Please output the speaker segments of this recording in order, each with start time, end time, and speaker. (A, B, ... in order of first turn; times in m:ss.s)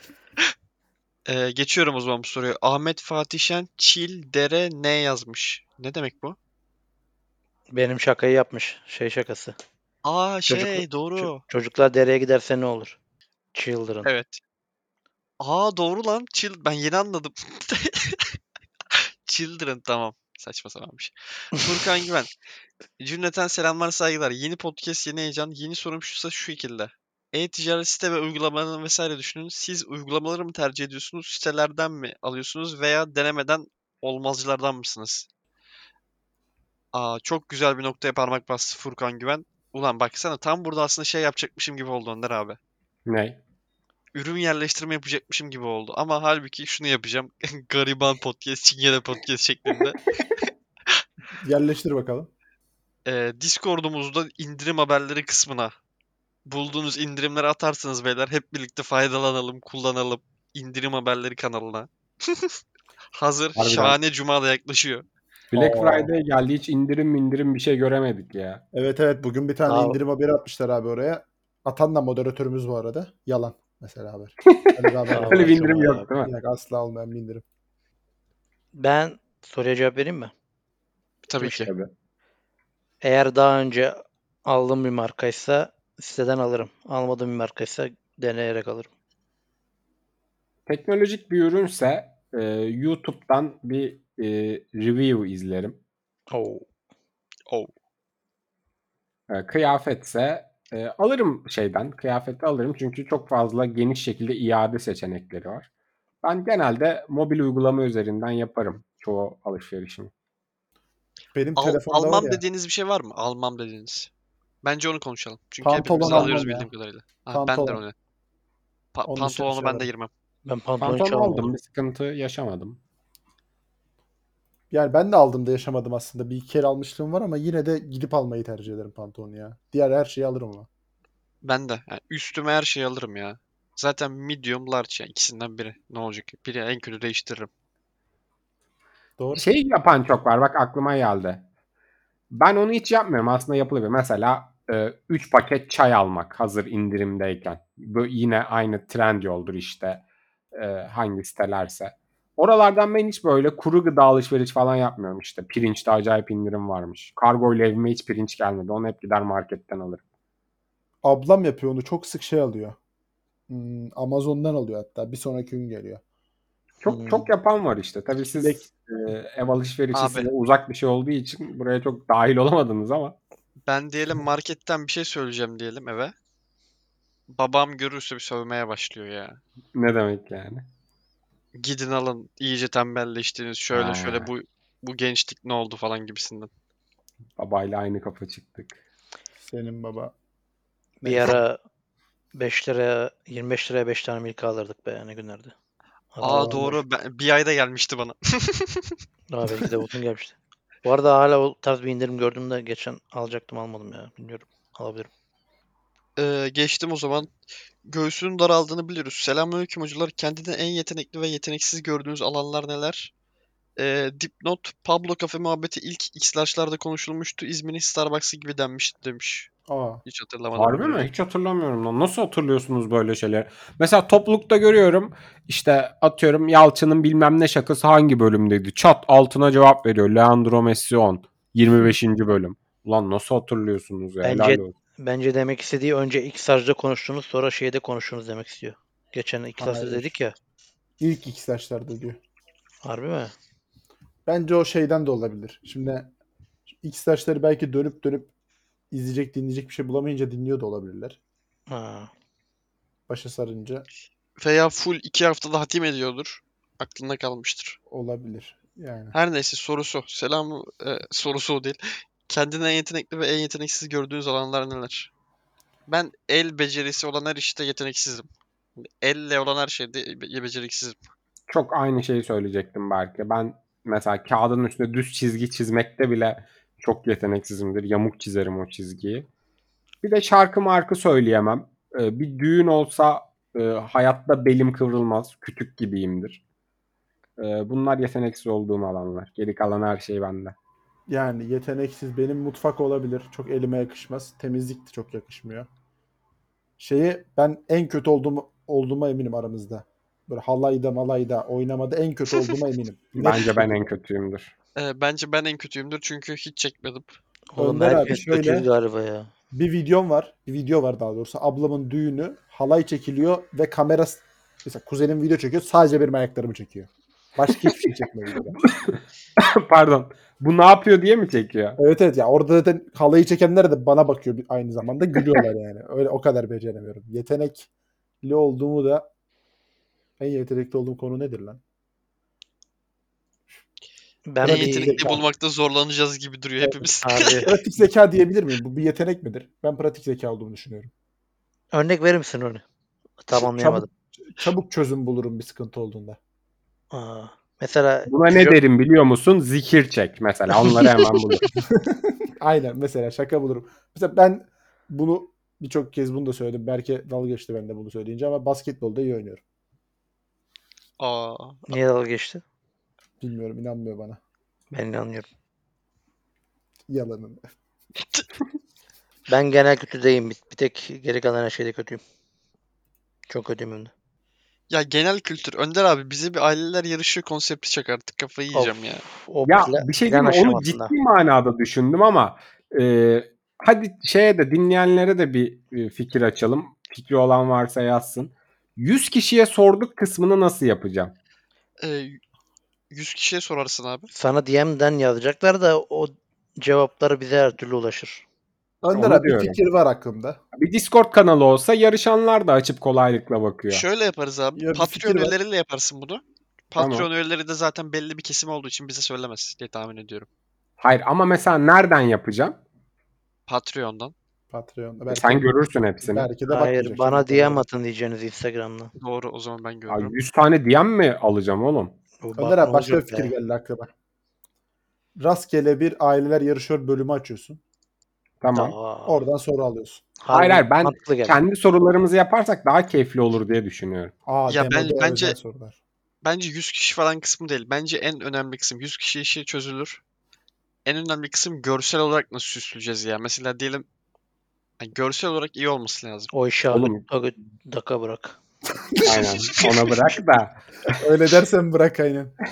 0:01.2-0:06.4 A
0:07.7-0:09.6 B
0:10.0-0:11.4 A
0:10.5-0:13.0 B
0:13.5-0:14.1 B
0:14.0-0:14.4 A
0:15.4-0:18.4 A
0:18.9-0:22.3 A
0:23.0-0:35.3 A
0:36.9-0:42.6 A
0:43.1-0:43.4 C
0:44.1-0:50.0 A
0:51.4-0:52.3 D
0:53.0-0:55.7 A
0:56.4-1:02.6 A
1:03.1-1:05.0 A
1:03.6-1:04.0 C
1:05.5-1:08.6 C
1:05.5-1:06.1 D
1:08.7-1:17.4 D
1:09.7-1:10.0 B
1:15.1-1:16.1 B
1:15.2-1:16.3 C
1:18.7-1:20.3 B
1:21.3-1:21.7 A
1:21.4-1:21.7 B
1:21.6-1:21.9 C
1:23.0-1:28.9 B
1:30.7-1:35.8 C
1:36.3-1:36.6 B
1:39.3-1:45.7 C
1:46.2-1:50.1 C
1:51.3-1:52.4 D
1:51.6-1:54.1 A
1:54.6-1:57.9 A
1:55.6-1:56.7 D
1:57.3-1:57.8 D
1:58.9-2:00.1 A
1:59.1-1:59.9 D
2:00.4-2:01.5 B
2:00.8-2:02.8 C
2:04.7-2:10.7 D
2:11.4-2:17.5 A
2:19.2-2:19.4 D
2:19.3-2:21.4 C
2:22.3-2:40.0 C
2:41.0-2:42.8 D
2:43.5-2:46.0 D
2:46.8-2:53.2 C
2:46.8-2:47.3 B
2:48.4-2:48.6 D
2:49.9-2:50.3 A
2:53.7-2:56.1 A
2:57.3-2:59.4 A
2:59.7-3:00.6 C
3:01.6-3:06.5 A
3:03.7-3:04.3 C
3:07.4-3:08.8 C
3:09.4-3:10.1 D
3:11.0-3:11.4 D
3:11.0-3:11.6 B
3:12.3-3:15.5 B
3:16.1-3:16.7 B
3:16.2-3:16.8 D
3:16.2-3:19.0 A
3:19.3-3:25.1 B
3:26.2-3:27.3 A
3:27.8-3:33.1 A
3:33.8-3:39.5 A
3:39.7-3:40.0 D
3:40.0-3:41.1 A
3:40.5-3:54.7 C
3:54.2-4:00.3 B
3:59.6-4:00.1 D
4:01.0-4:02.2 D
4:02.8-4:03.3 B
4:04.2-4:06.1 D
4:06.8-4:08.3 D
4:08.9-4:11.2 D
4:11.7-4:12.1 B
4:13.1-4:13.8 D
4:14.4-4:17.8 A
4:17.9-4:19.2 D
4:19.1-4:25.1 A
4:25.9-4:28.3 A
4:28.8-4:31.0 A
4:31.5-4:39.3 C
4:40.0-4:46.4 C
4:47.4-4:50.5 C
4:51.1-4:55.7 D
4:56.8-5:03.8 D
5:03.2-5:04.5 C
5:04.8-5:07.2 A
5:07.5-5:09.3 B
5:07.6-5:08.7 D
5:09.5-5:18.6 D
5:18.7-5:21.8 C
5:21.8-5:27.7 D
5:28.2-5:29.1 D
5:30.2-5:31.6 D
5:34.2-5:35.1 B
5:34.4-5:35.3 D
5:34.4-5:37.4 A
5:37.0-5:37.5 B
5:37.4-5:40.9 D
5:41.7-5:42.6 B
5:43.2-5:43.9 B
5:43.4-5:46.2 D
5:46.9-5:48.6 B
5:48.1-5:51.4 C
5:51.8-5:59.4 D
6:01.0-6:01.6 A
6:01.7-6:02.4 B
6:03.2-6:04.2 D
6:04.7-6:05.3 B
6:06.9-6:07.4 D
6:09.3-6:12.0 B
6:13.3-6:13.9 B
6:14.7-6:19.0 A
6:18.5-6:20.9 B
6:19.4-6:31.1 C
6:31.8-6:32.2 A
6:32.9-6:34.1 A
6:34.1-6:38.2 B
6:38.8-6:40.4 D
6:38.9-6:39.6 C
6:40.5-6:43.8 C
6:43.7-6:50.3 A
6:44.6-6:45.3 D
6:46.8-6:47.1 C
6:50.8-6:52.6 C
6:53.5-6:54.1 A
6:54.5-6:55.5 D
6:55.1-6:56.3 C
6:56.0-6:57.6 D
6:56.5-6:58.9 B
6:59.0-7:00.1 A
6:59.9-7:01.9 C
7:02.2-7:03.3 B
7:02.4-7:03.9 D
7:05.2-7:07.6 D
7:08.4-7:08.8 C
7:08.5-7:09.2 B
7:09.0-7:10.1 D
7:10.2-7:11.4 B
7:10.3-7:14.1 C
7:14.2-7:15.8 D
7:14.5-7:15.4 A
7:16.2-7:20.0 A
7:20.8-7:23.8 A
7:24.8-7:26.3 A
7:26.3-7:28.4 B
7:26.7-7:27.0 C
7:29.0-7:30.6 C
7:29.6-7:29.9 A
7:30.9-7:32.3 D